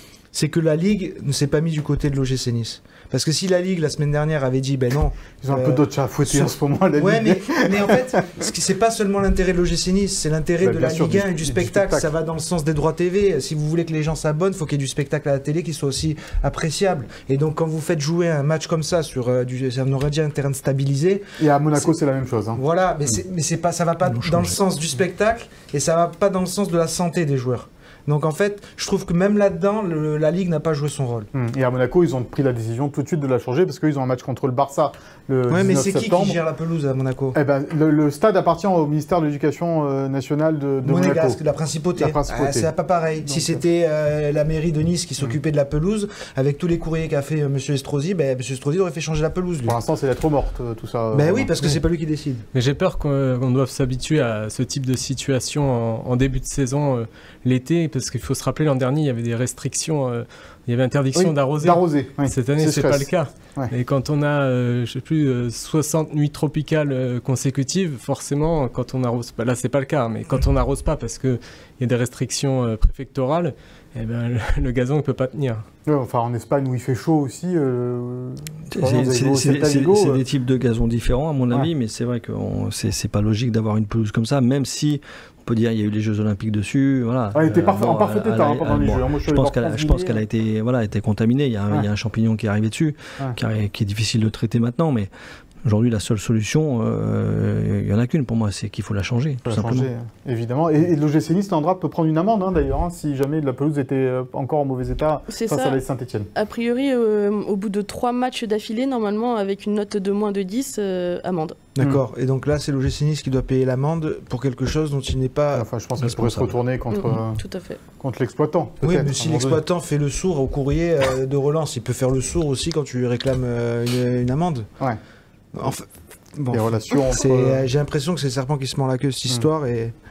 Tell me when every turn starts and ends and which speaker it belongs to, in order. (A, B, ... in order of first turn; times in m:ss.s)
0:00.3-0:21.9 A
0:05.4-0:08.0 B
0:10.6-0:12.0 B
0:21.4-0:22.6 B
0:22.5-0:31.3 A
0:24.1-0:24.5 C
0:31.3-0:36.4 B
0:35.5-0:37.4 A
0:37.3-0:41.4 B
0:40.8-0:49.8 A
0:42.0-0:42.7 B
0:43.2-0:43.6 B
0:49.6-0:51.5 B
0:51.1-0:52.4 A
0:52.5-1:15.6 D
1:01.2-1:03.7 B
1:15.9-1:20.2 B
1:18.7-1:35.1 C
1:27.3-1:30.2 B
1:35.6-1:39.9 C
1:39.4-1:46.3 B
1:45.3-1:45.8 E
1:46.3-1:51.6 E
1:51.7-1:56.5 A
1:55.5-1:57.4 B
1:56.9-1:57.8 E
1:58.0-1:59.6 B
1:58.8-2:04.7 A
2:05.5-2:09.9 A
2:06.5-2:07.6 B